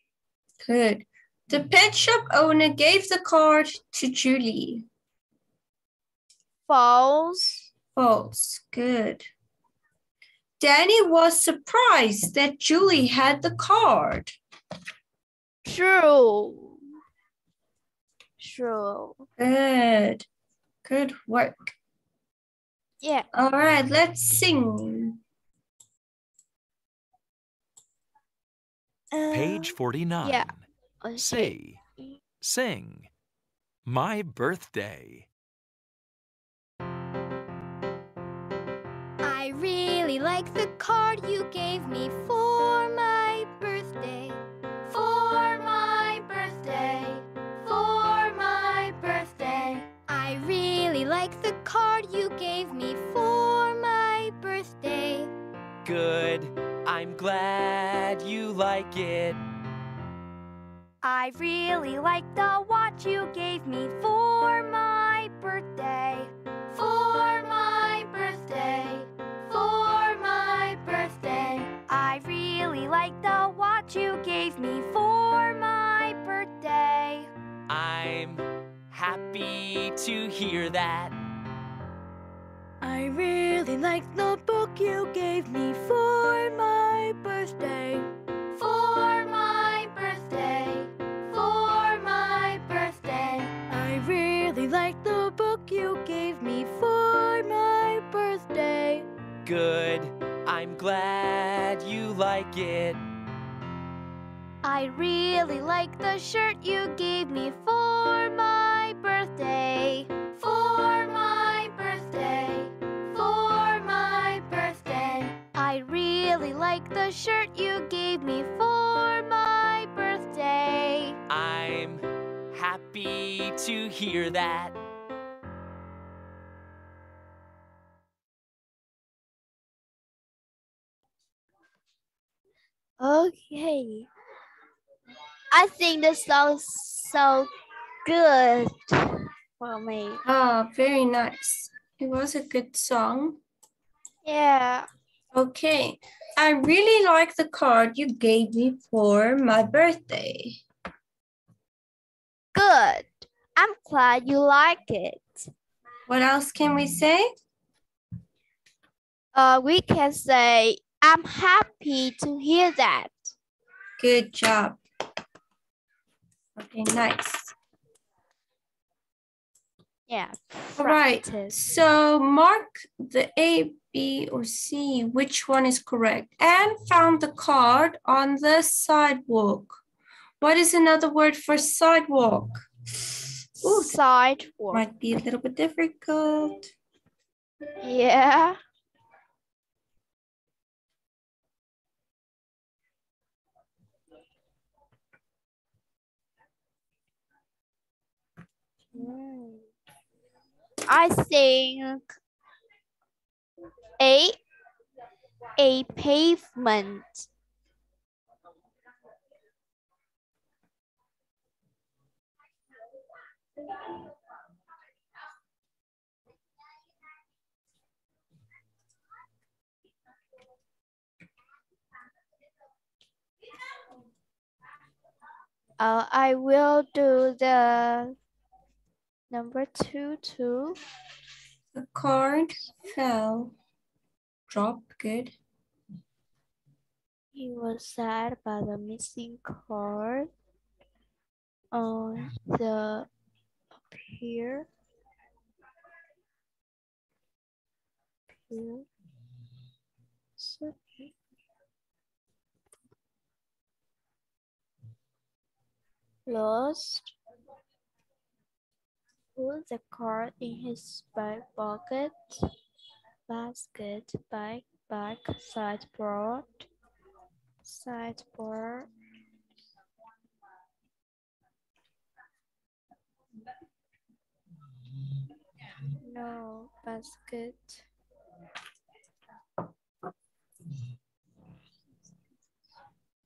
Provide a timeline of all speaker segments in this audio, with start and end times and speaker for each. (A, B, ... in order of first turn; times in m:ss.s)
0:00.6-0:04.8 A
0:06.7-0:07.7 B
0:07.9-0:09.3 A
0:10.6-0:14.3 A
0:15.6-0:16.8 B
0:18.4-0:19.3 B
0:19.4-0:20.2 A
0:20.8-0:21.7 A
0:23.0-0:23.3 B
0:23.3-0:25.2 A
0:29.1-0:30.5 B
0:29.3-0:30.6 C
0:31.0-0:31.5 B
0:31.2-0:31.8 C
0:32.4-0:33.1 C
0:33.8-0:35.3 C
0:39.2-0:55.3 D
0:55.8-0:59.4 E
1:01.0-1:17.3 D
1:17.7-1:21.1 E
1:22.8-1:39.0 D
1:39.4-1:43.0 E
1:44.6-2:01.2 D
2:01.3-2:04.7 E
2:13.0-2:14.1 B
2:15.5-2:17.5 B
2:18.0-2:19.0 B
2:19.6-2:20.2 B
2:20.2-2:23.4 A
2:24.2-2:24.9 B
2:25.3-2:30.6 A
2:32.5-2:35.5 B
2:36.1-2:37.3 A
2:39.3-2:43.3 B
2:44.0-2:44.8 A
2:46.6-2:47.5 A
2:50.1-2:51.6 B
2:50.8-2:59.8 A
3:00.4-3:02.6 A
3:03.6-3:04.8 B
3:03.6-3:04.0 A
3:04.7-3:06.7 A
3:07.8-3:08.6 B
3:18.9-3:19.7 B
3:20.9-3:22.1 B
3:24.0-3:24.4 B
3:25.6-3:27.3 B
3:45.8-3:48.2 B
3:49.3-3:50.8 B
3:51.7-3:53.5 A
3:54.5-3:55.3 A
3:57.3-4:00.3 B
4:01.7-4:03.1 B
4:03.7-4:04.7 B
4:08.3-4:08.9 B
4:10.4-4:11.1 B
4:16.2-4:17.1 B
4:19.4-4:22.4 B
4:23.3-4:26.7 B
4:27.6-4:28.9 B
4:36.0-4:37.8 B